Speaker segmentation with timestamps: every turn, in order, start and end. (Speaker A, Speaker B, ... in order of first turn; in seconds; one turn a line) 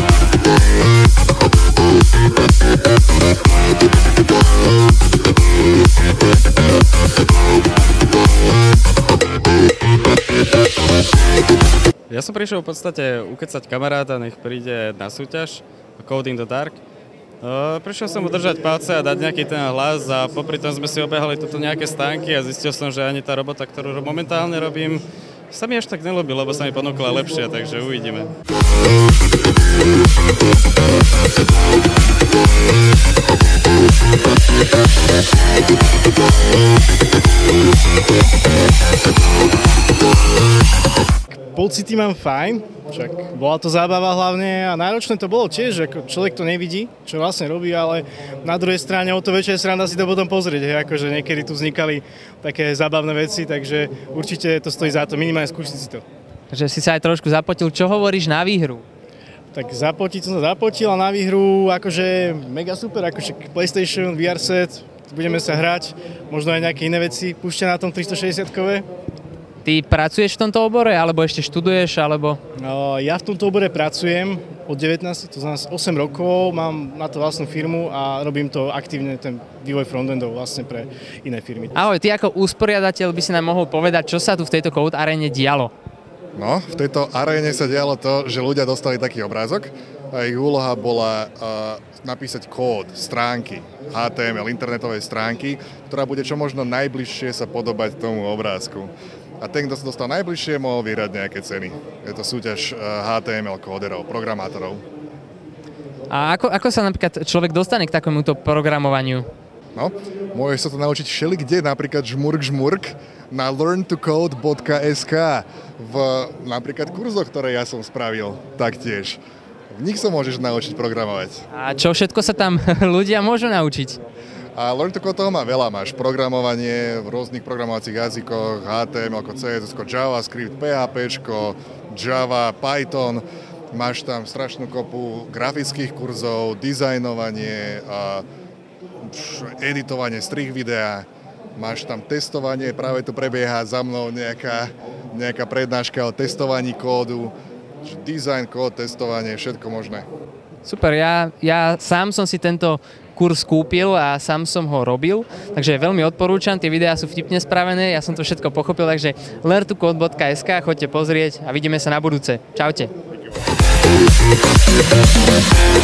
Speaker A: 12.1-16.8
Speaker A: 17.4-28.3
Speaker B: 41.3-56.0
Speaker C: 56.5-58.8
Speaker B: 59.5-68.8
Speaker C: 69.6-72.4
Speaker B: 72.6-81.7
Speaker C: 81.7-85.7
Speaker D: 86.3-104.8
Speaker C: 106.1-109.3
Speaker D: 109.7-119.2
Speaker D: 119.7-121.4
Speaker C: 121.5-124.0
Speaker D: 124.5-138.2
Speaker D: 139.0-150.1
Speaker C: 150.6-162.9